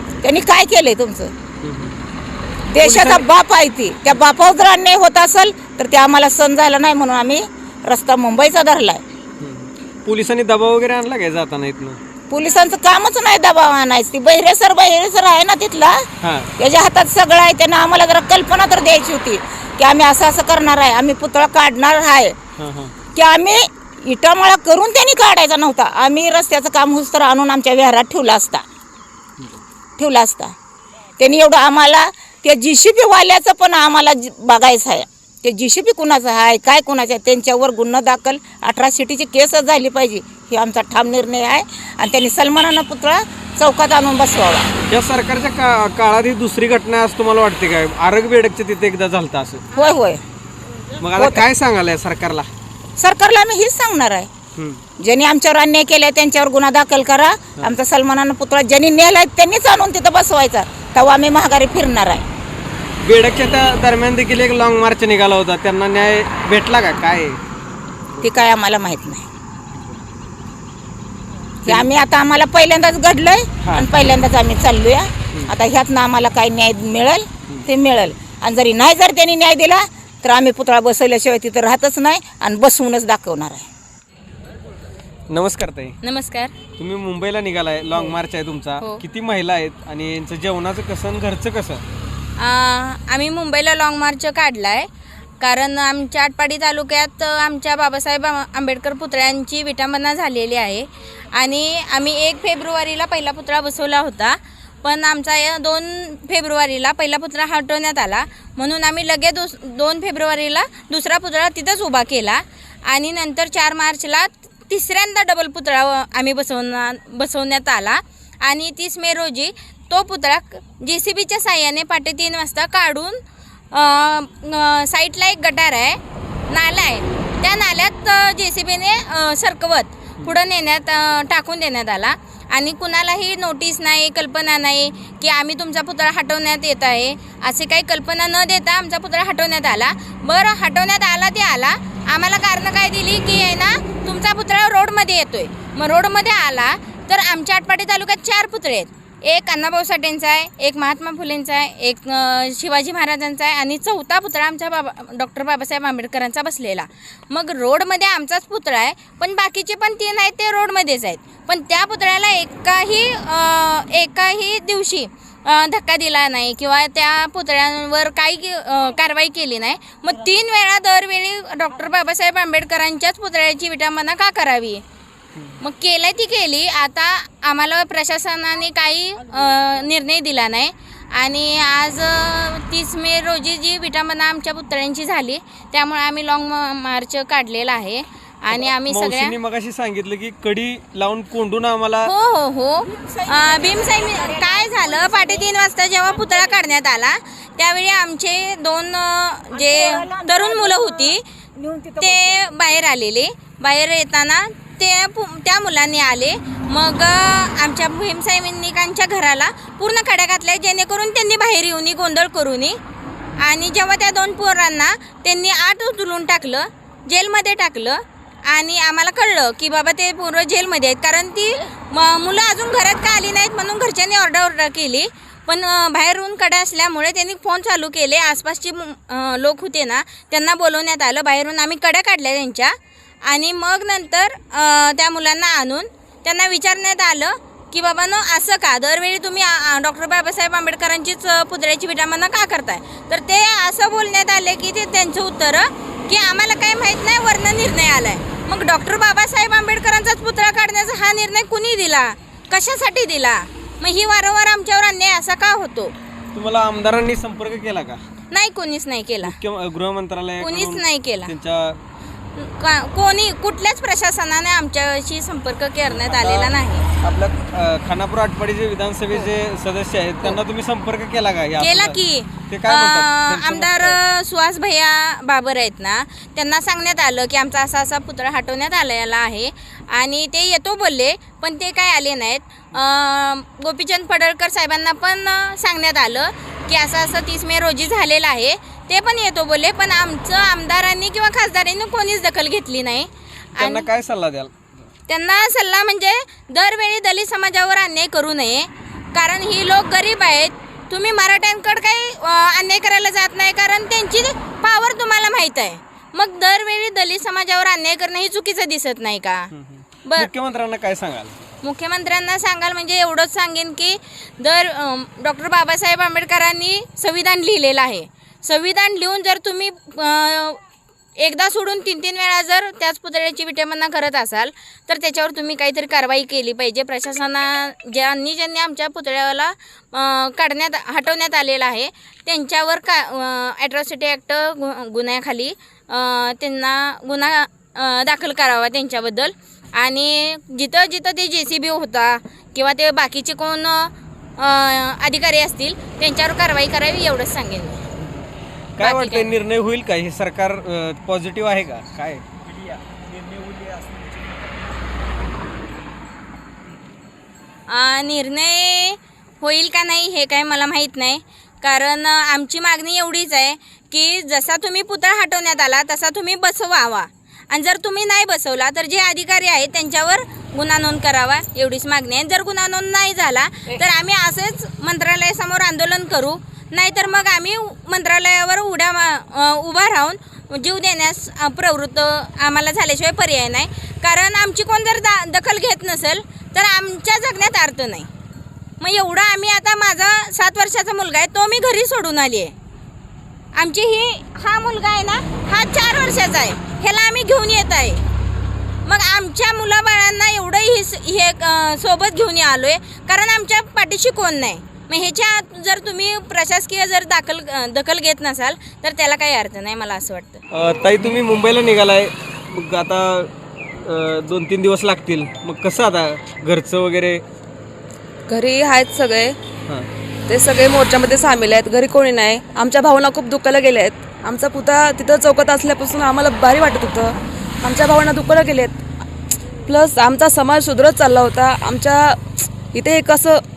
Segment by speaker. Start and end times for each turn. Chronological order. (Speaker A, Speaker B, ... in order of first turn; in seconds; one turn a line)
Speaker A: 0.2-1.3
Speaker B: 1.6-2.0
Speaker A: 2.7-9.0
Speaker B: 2.8-3.2
Speaker B: 9.4-12.0
Speaker A: 12.3-16.1
Speaker B: 16.2-16.5
Speaker A: 16.6-22.4
Speaker B: 22.6-22.9
Speaker A: 23.1-28.6
Speaker A: 30.0-30.5
Speaker A: 31.2-44.7
Speaker B: 44.9-49.6
Speaker A: 49.7-50.2
Speaker B: 51.0-52.5
Speaker A: 51.2-51.4
Speaker A: 53.0-54.3
Speaker B: 54.6-54.8
Speaker A: 55.0-62.2
Speaker B: 63.0-67.4
Speaker B: 68.1-68.5
Speaker A: 68.2-69.2
Speaker A: 71.6-83.7
Speaker B: 73.6-73.9
Speaker B: 85.3-86.0
Speaker C: 86.0-86.5
Speaker B: 86.8-91.8
Speaker C: 92.4-94.9
Speaker C: 95.4-123.2
Speaker C: 123.7-174.8
Speaker C: 175.6-189.4
Speaker B: 188.5-192.1
Speaker C: 192.1-201.2
Speaker A: 192.9-195.4
Speaker A: 199.5-202.8
Speaker C: 202.0-212.8
Speaker C: 213.4-232.8
Speaker C: 233.3-255.9
Speaker B: 256.3-258.0
Speaker C: 258.3-259.4
Speaker B: 259.2-261.8
Speaker C: 260.4-261.3
Speaker C: 262.4-266.9
Speaker B: 265.9-272.0
Speaker C: 271.6-293.9
Speaker B: 272.5-274.0
Speaker B: 293.6-294.5
Speaker C: 295.1-309.5
Speaker B: 309.5-311.4
Speaker C: 311.6-320.6
Speaker C: 321.2-347.9
Speaker B: 348.8-352.2
Speaker C: 348.8-349.3
Speaker C: 357.7-388.1
Speaker C: 388.8-392.5
Speaker C: 393.6-398.0
Speaker C: 398.9-410.4
Speaker B: 410.5-413.3
Speaker B: 413.8-417.2
Speaker D: 418.3-419.4
Speaker D: 420.3-428.8
Speaker D: 429.7-432.2
Speaker D: 432.7-433.4